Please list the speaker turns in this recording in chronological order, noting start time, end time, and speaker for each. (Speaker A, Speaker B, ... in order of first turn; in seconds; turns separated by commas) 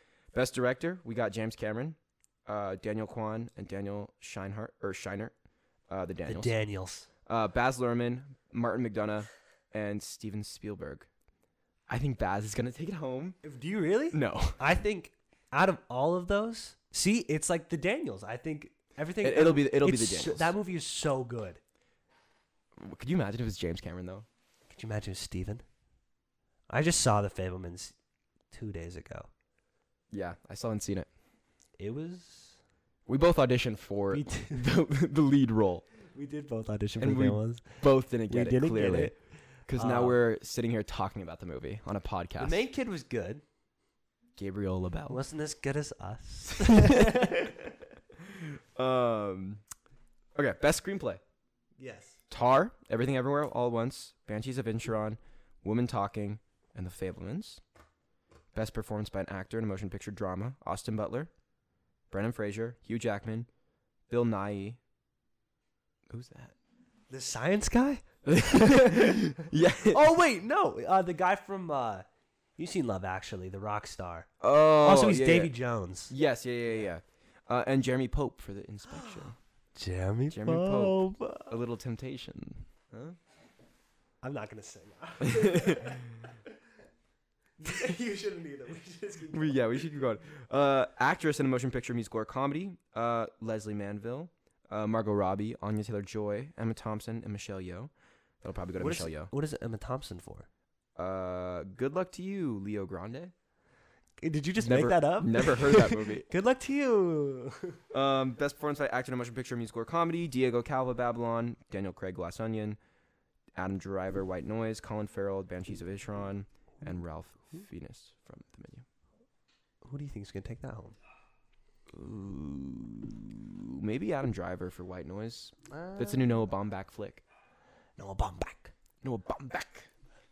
Speaker A: 0.3-5.3, Speaker A: 5.9-6.5, Speaker B: 6.2-7.1, Speaker A: 7.2-11.1, Speaker A: 11.9-13.4, Speaker B: 13.4-21.6, Speaker A: 14.1-14.6, Speaker A: 19.2-20.6, Speaker A: 22.8-24.3, Speaker B: 24.7-25.6, Speaker B: 26.7-27.9, Speaker B: 28.5-29.3, Speaker A: 30.1-31.1, Speaker B: 31.8-32.6, Speaker A: 33.1-35.9, Speaker B: 34.1-34.7, Speaker B: 36.1-39.1, Speaker A: 37.0-39.1, Speaker A: 39.7-42.6, Speaker B: 39.8-40.2, Speaker B: 42.4-43.4, Speaker A: 44.4-45.2, Speaker B: 45.1-47.6, Speaker A: 46.6-47.4, Speaker A: 48.2-49.6, Speaker A: 50.3-51.2, Speaker B: 51.8-52.2, Speaker A: 52.3-57.6, Speaker A: 58.5-61.3, Speaker A: 62.1-63.5, Speaker A: 64.1-64.8, Speaker A: 66.1-66.5, Speaker B: 67.1-72.0, Speaker A: 68.2-70.0, Speaker B: 72.6-76.1, Speaker A: 74.4-75.5, Speaker A: 76.1-79.4, Speaker B: 78.9-81.5, Speaker A: 80.3-83.2, Speaker B: 84.2-86.5, Speaker A: 85.2-86.1, Speaker B: 87.6-89.8, Speaker A: 89.3-99.3, Speaker B: 98.8-100.5, Speaker A: 101.0-103.3, Speaker B: 104.2-107.8, Speaker A: 104.6-106.2, Speaker A: 107.9-112.8, Speaker A: 113.5-118.8, Speaker B: 119.8-121.0, Speaker A: 121.9-127.2, Speaker B: 125.7-126.4, Speaker B: 128.0-128.7, Speaker A: 129.0-129.9